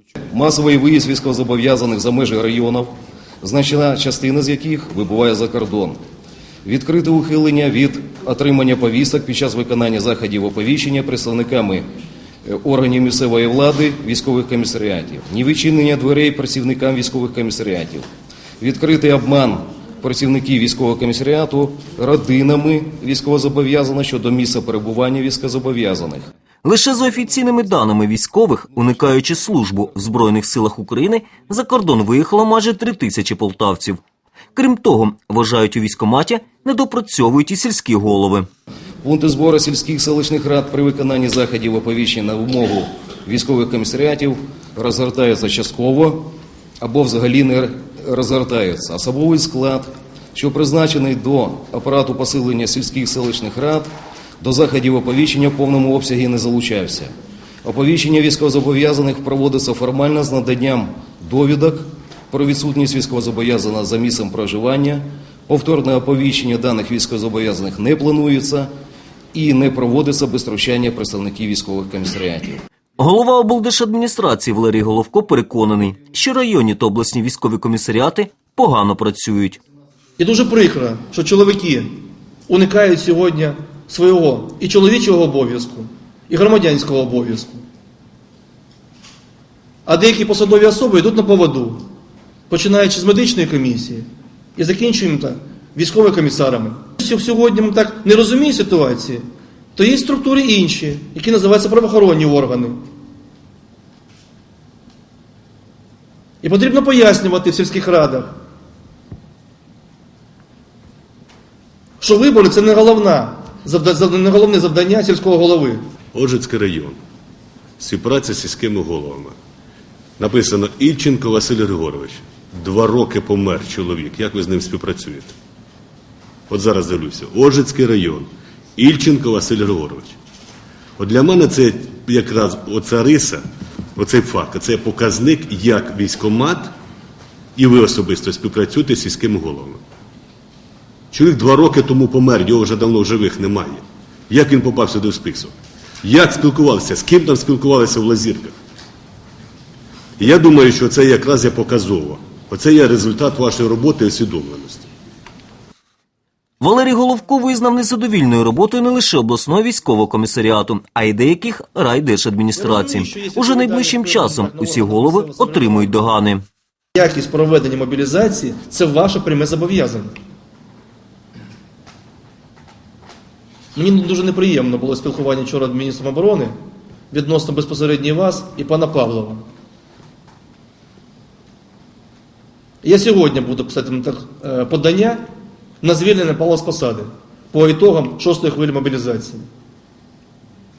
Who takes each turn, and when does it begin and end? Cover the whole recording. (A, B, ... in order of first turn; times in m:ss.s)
0:00.2-0:02.9 A
0:03.4-0:06.0 A
0:06.6-0:11.8 A
0:12.4-0:18.0 A
0:18.6-0:26.3 A
0:26.6-0:34.0 B
0:34.5-0:38.4 B
0:39.0-0:57.1 A
0:57.6-1:08.7 A
1:09.3-1:12.6 A
1:13.0-1:19.6 B
1:20.2-1:21.9 C
1:22.5-1:27.6 C
1:29.8-1:31.9 C
1:32.5-1:39.2 C
1:39.7-1:42.8 C
1:46.4-1:48.3 C
1:52.0-1:55.8 C
1:56.1-1:57.0 D
1:57.8-1:59.4 D
2:00.2-2:05.3 D
2:06.5-2:10.2 D
2:11.0-2:13.4 D
2:14.0-2:16.7 D
2:17.6-2:19.8 D
2:21.1-2:28.6 D
2:30.2-2:34.9 D
2:36.6-2:46.4 B
2:42.6-2:46.0 C
2:46.9-2:50.1 C
2:53.7-2:56.5 C
2:57.1-2:59.4 C
3:02.8-3:05.2 C
3:05.8-3:09.5 C